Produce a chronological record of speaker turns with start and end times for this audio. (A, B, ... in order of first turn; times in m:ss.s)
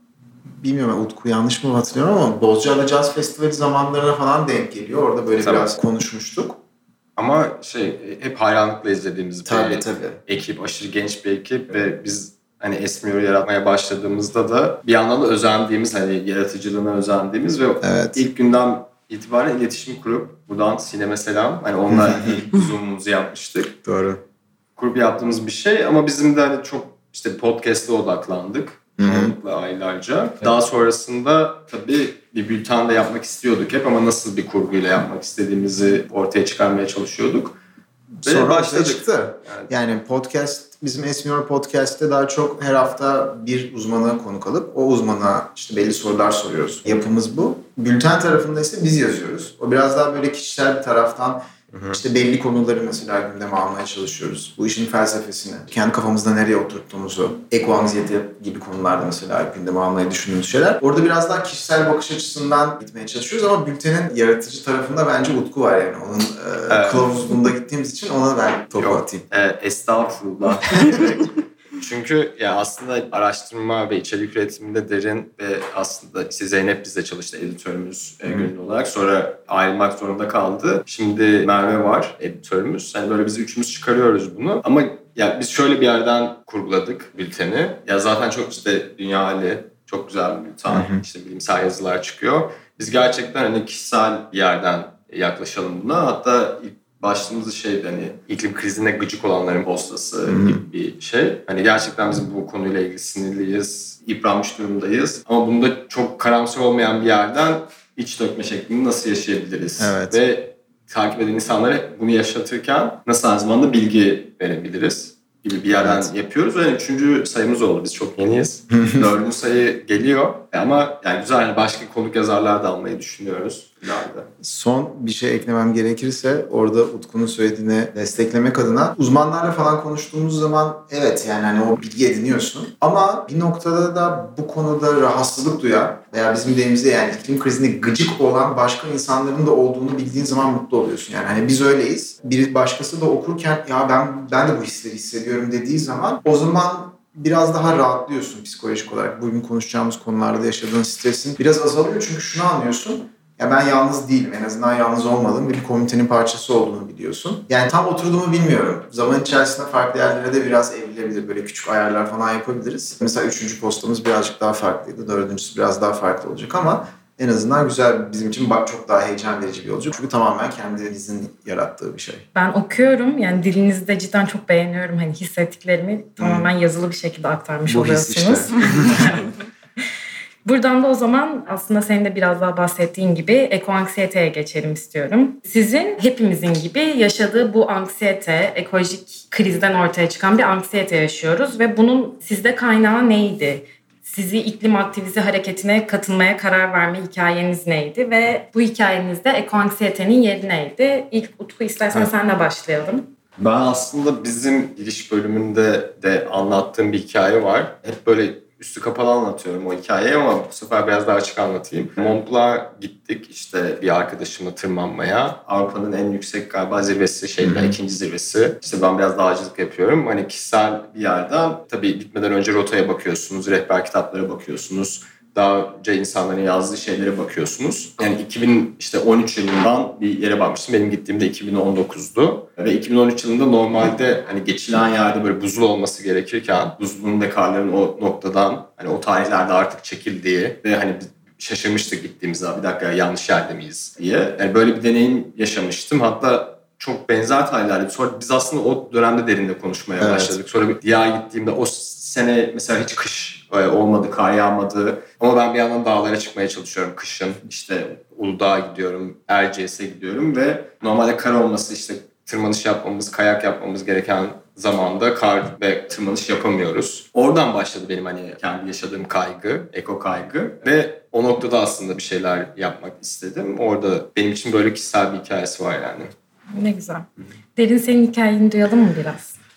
0:00.6-0:06.6 A
0:05.4-0:05.7 B
0:07.2-0:23.8 B
0:09.5-0:10.2 A
0:17.8-0:18.2 A
0:21.9-0:22.5 A
0:23.8-0:24.2 A
0:24.8-0:37.6 B
0:29.0-0:29.4 A
0:38.2-1:09.2 A
0:38.2-0:39.7 B
0:51.7-0:52.0 B
1:06.7-1:07.1 B
1:08.8-2:04.3 B
1:10.8-1:11.2 A
1:30.7-1:31.0 A
1:40.3-1:40.6 A
1:49.8-1:50.2 A
1:55.8-1:56.1 A
1:58.7-1:59.1 A
2:04.4-2:52.2 A
2:52.4-2:59.3 C
2:56.2-2:56.5 A
2:57.7-2:59.3 A
3:00.4-3:23.1 C
3:23.4-4:36.1 B
3:37.4-3:37.8 A
4:10.0-4:10.4 A
4:36.5-4:39.4 C